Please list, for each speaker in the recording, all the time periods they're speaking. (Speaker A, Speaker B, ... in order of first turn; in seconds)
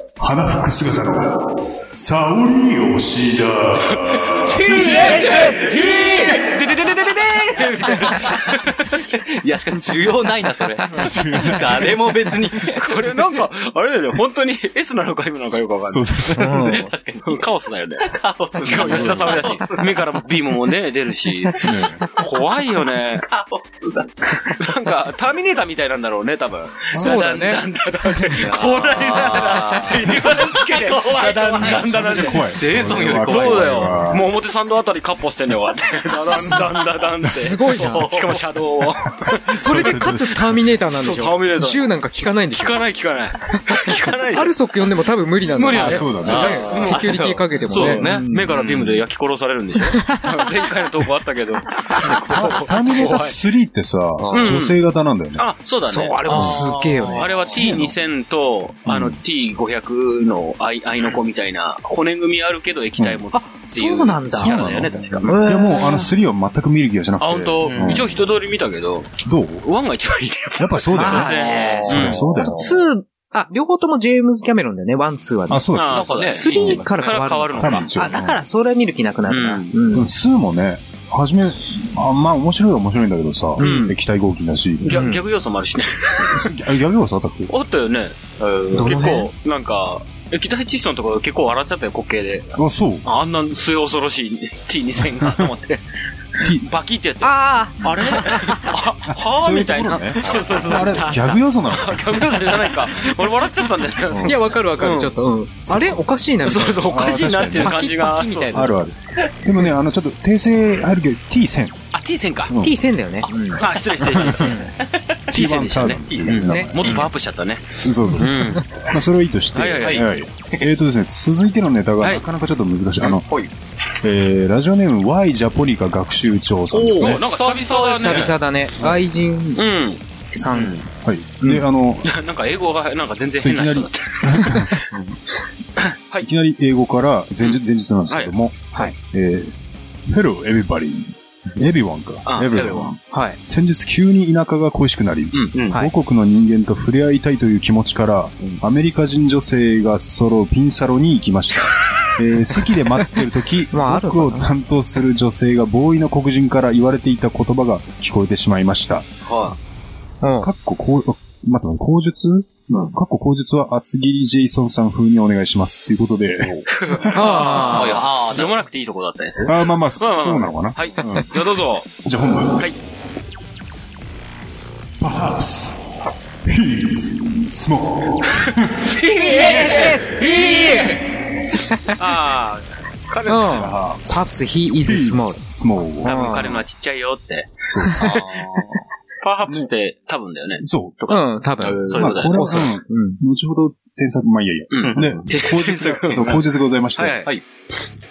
Speaker A: 0.2-5.0, 10.9-12.1, 15.8-16.8, 18.6-19.5, 21.6-22.0, 26.9-27.3, 31.6-34.3, 37.2-37.5, 39.2-40.8, 45.7-46.7, 52.1-55.5, 56.3-56.7, 58.9-59.2, 63.0-63.2, 64.3-68.1, 69.2-69.7, 70.6-72.8, 75.5-76.8, 77.6-78.4, 79.9-85.1, 86.2-87.5, 92.6-93.0, 95.2-95.5, 96.4-96.7, 99.1-103.1, 104.0-104.3, 105.7-106.0, 106.8-107.9, 108.5-111.8, 112.5-112.8, 114.0-114.6, 115.3-117.1, 117.8-123.2, 124.0-127.2, 131.0-132.1, 133.4-134.7, 136.2-139.5, 140.1-159.1, 160.4-167.1, 169.4-172.7, 175.0-178.9, 179.7-180.0, 183.4-186.4, 187.7-188.1, 190.6-191.0, 191.9-197.2
Speaker B: 4.7-8.8, 12.7-16.2, 17.2-23.3, 24.5-39.5, 40.9-42.0, 42.5-44.6, 45.5-53.4, 54.3-54.8, 55.4-56.5, 57.1-65.4, 67.2-72.3, 75.7-77.9, 79.3-79.7, 83.6-83.9, 84.8-86.5, 87.5-88.2, 88.7-95.8, 96.4-105.1, 106.4-108.7, 111.9-112.5, 113.6-114.7, 115.3-118.7, 119.5-120.0, 122.0-122.2, 126.7-128.4, 129.6-130.0, 132.0-134.8, 135.8-136.3, 142.2-142.9, 166.8-171.9, 179.1-179.9, 182.0-183.6, 186.0-188.3, 189.2-192.7, 194.7-197.3
Speaker C: 4.9-6.2, 7.8-13.2, 16.3-17.5, 18.0-20.2, 21.3-22.2, 23.2-24.7, 28.4-34.1, 37.7-38.5, 46.2-49.0, 54.2-54.7, 56.2-57.8, 64.9-65.3, 67.7-68.0, 71.0-72.8, 75.9-76.9, 88.4-89.0, 113.2-115.2, 115.9-117.1, 119.8-120.7, 123.0-123.5, 127.0-128.9, 130.5-130.8, 142.5-142.9, 145.5-145.8, 159.2-159.6, 162.7-162.9, 166.4-168.6, 188.0-188.8, 191.6-192.2, 194.8-195.3, 196.1-196.5
Speaker D: 16.3-16.9, 26.9-27.6, 37.3-38.1, 39.5-42.8, 43.7-48.5, 49.9-50.2, 55.9-57.9, 63.3-64.7, 65.2-66.1, 70.9-75.6, 76.2-80.1, 83.6-83.9, 84.9-85.2, 88.7-89.3, 97.2-98.7, 104.2-108.7, 112.6-113.6, 114.4-114.7, 116.5-116.7, 118.1-118.6, 127.7-129.6, 130.3-130.8, 143.1-143.4, 153.7-154.5, 160.2-160.5, 167.1-168.1, 179.0-181.0, 181.5-181.9, 183.3-185.4, 186.0-186.6, 187.8-188.2, 191.1-193.2